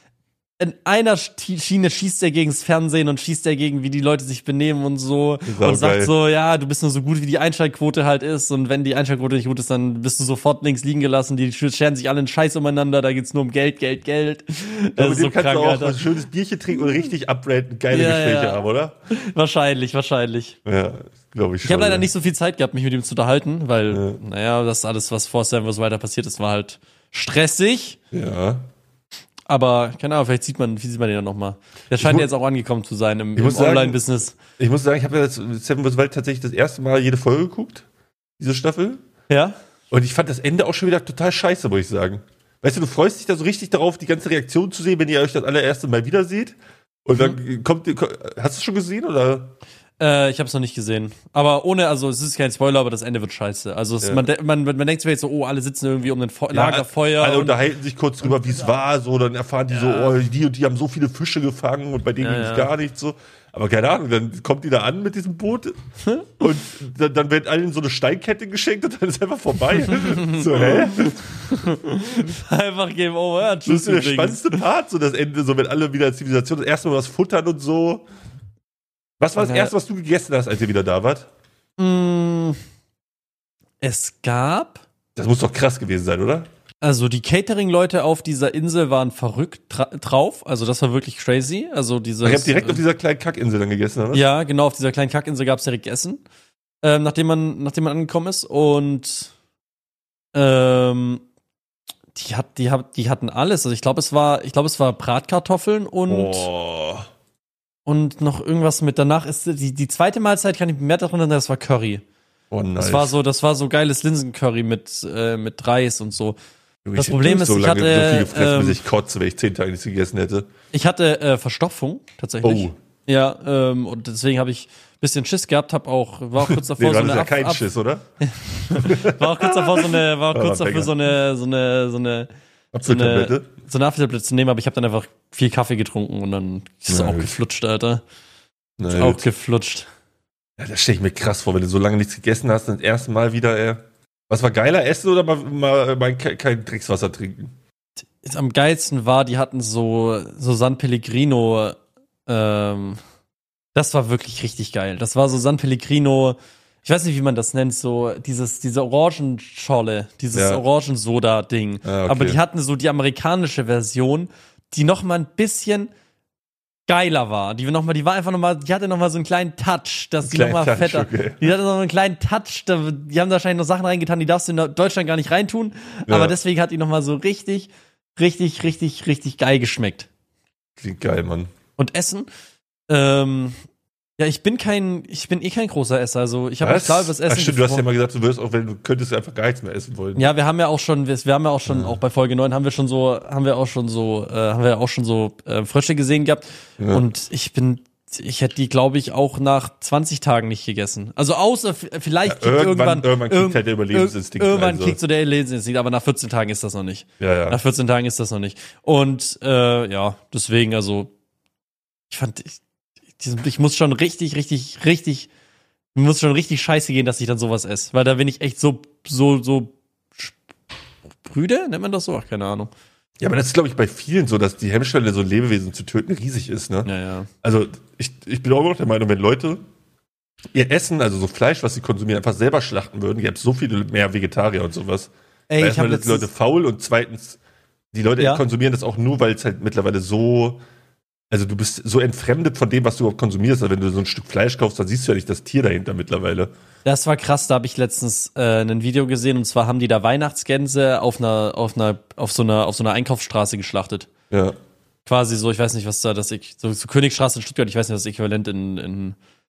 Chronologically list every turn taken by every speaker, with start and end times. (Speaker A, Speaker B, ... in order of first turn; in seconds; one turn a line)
Speaker A: 0.6-16.0
Speaker B: 5.5-6.1
Speaker B: 15.0-18.9
Speaker A: 17.9-20.6
Speaker B: 20.6-22.1
Speaker A: 21.6-28.0
Speaker B: 23.9-24.2
Speaker B: 28.1-28.7
Speaker A: 29.5-34.4
Speaker B: 31.9-32.3
Speaker B: 33.4-34.0
Speaker B: 34.6-37.9
Speaker B: 38.4-39.0
Speaker A: 39.3-39.6
Speaker B: 39.9-49.5
Speaker A: 50.0-57.6
Speaker B: 56.5-65.8
Speaker A: 59.7-60.1
Speaker A: 62.2-62.7
Speaker A: 66.0-66.3
Speaker B: 66.4-71.2
Speaker A: 69.9-74.6
Speaker B: 73.7-78.0
Speaker B: 79.2-81.3
Speaker A: 79.4-79.7
Speaker A: 81.8-82.6
Speaker A: 83.8-84.8
Speaker B: 85.2-86.5
Speaker A: 86.8-92.8
Speaker B: 92.2-94.2
Speaker A: 94.1-96.2
Speaker A: 96.8-99.3
Speaker A: 100.3-101.2
Speaker A: 102.1-106.5
Speaker B: 106.1-107.1
Speaker A: 107.9-112.0
Speaker B: 112.5-113.2
Speaker A: 112.8-116.4
Speaker B: 116.8-120.5
Speaker A: 117.0-118.8
Speaker A: 120.7-127.7
Speaker B: 122.4-122.8
Speaker B: 126.4-128.1
Speaker A: 128.2-132.3
Speaker B: 128.7-130.9
Speaker B: 132.7-133.5
Speaker A: 132.8-138.0
Speaker B: 136.9-137.3
Speaker B: 138.8-139.2
Speaker A: 138.9-139.9
Speaker B: 140.6-147.5
Speaker A: 148.2-153.0
Speaker A: 153.7-165.9
Speaker B: 160.3-160.6
Speaker B: 161.8-162.4
Speaker A: 166.9-180.1
Speaker B: 170.2-171.5
Speaker B: 176.1-176.4
Speaker B: 180.8-181.5
Speaker A: 181.8-182.3
Speaker A: 182.9-183.6
Speaker A: 184.2-187.8
Speaker B: 186.6-190.3
Speaker A: 190.2-211.1
Speaker B: 191.7-192.0
Speaker B: 196.8-197.1
Speaker B: 202.3-205.0
Speaker B: 207.2-207.6
Speaker A: 212.1-212.6
Speaker A: 213.2-215.3
Speaker A: 215.9-220.4
Speaker A: 221.2-222.7
Speaker B: 223.2-226.9
Speaker A: 226.8-227.3
Speaker B: 227.4-229.6
Speaker B: 230.5-237.4
Speaker A: 235.5-236.3
Speaker B: 237.9-240.6
Speaker B: 241.3-246.5
Speaker A: 246.8-254.1
Speaker B: 254.3-254.6
Speaker A: 255.1-259.2